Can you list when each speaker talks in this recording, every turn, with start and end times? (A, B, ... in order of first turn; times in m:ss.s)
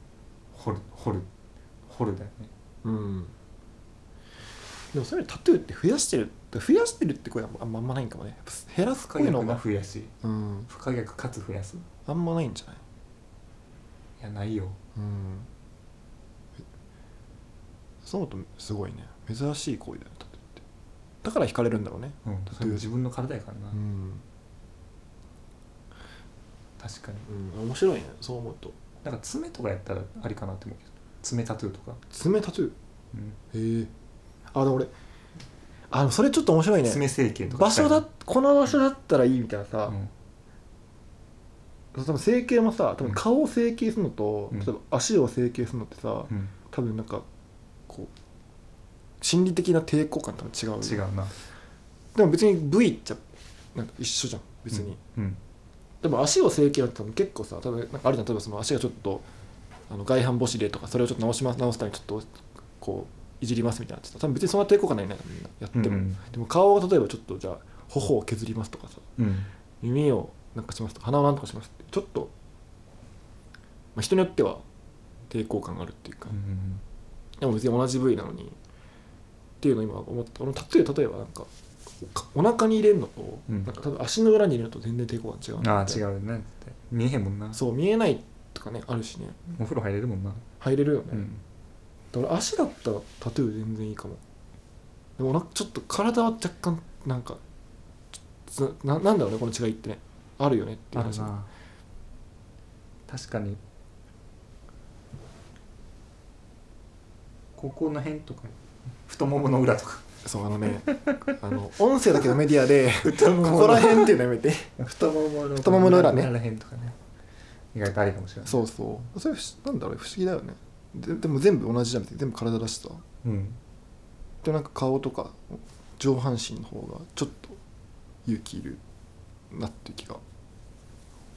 0:00.5-0:01.3 A
0:01.9-0:02.5 A
0:02.8-0:03.3 B
0:04.9-0:09.6 B
0:09.1-0:10.1 A
0:10.2-0:10.7 B
0:10.7-0:11.9 A
0:12.1-0:12.8 B
0:14.2-0:14.8 A
0:15.0-0:15.5 B
0:18.0-0:20.6 B
0:21.2-0:22.9 B
0:22.2-0:23.8 A
0:23.7-0:24.2 B
0:26.8-0:27.3 A
0:27.3-0:28.7 B
0:29.0-0:32.0 A
0:32.1-0:32.7 B
0:33.1-0:33.4 A
0:33.5-0:33.9 B
0:34.5-0:34.9 B
0:35.9-0:40.0 B
0:36.8-0:38.1 A
0:41.9-0:47.3 B
0:49.2-0:51.0 B
0:50.8-0:51.3 A
0:52.2-0:53.2 B
0:53.8-0:55.0 B
0:54.7-0:55.4 A
0:56.0-0:59.2 B
0:59.9-1:09.0 B
1:05.7-1:06.2 A
1:09.2-1:09.5 A
1:09.8-1:12.3 B
1:14.0-1:14.6 B
1:15.3-1:16.4 B
1:16.3-1:16.8 A
1:17.4-1:18.6 B
1:19.6-1:21.5 B
1:22.0-1:26.0 B
1:25.6-1:27.6 A
1:27.5-1:29.4 B
1:29.5-1:30.5 A
1:30.6-1:31.3 B
1:31.1-1:31.4 A
1:32.1-1:34.2 B
1:35.2-1:37.4 B
1:38.5-1:41.3 B
1:41.0-1:41.5 A
1:43.1-1:43.6 A
1:47.6-1:50.0 A
1:50.2-1:54.8 B
1:50.9-1:51.3 A
1:53.0-1:54.2 A
1:54.8-1:57.0 A
1:55.6-1:56.3 B
1:57.7-1:58.7 A
1:58.5-2:03.0 B
2:03.2-2:03.6 A
2:04.4-2:07.6 B
2:08.3-2:08.8 B
2:09.5-2:10.2 B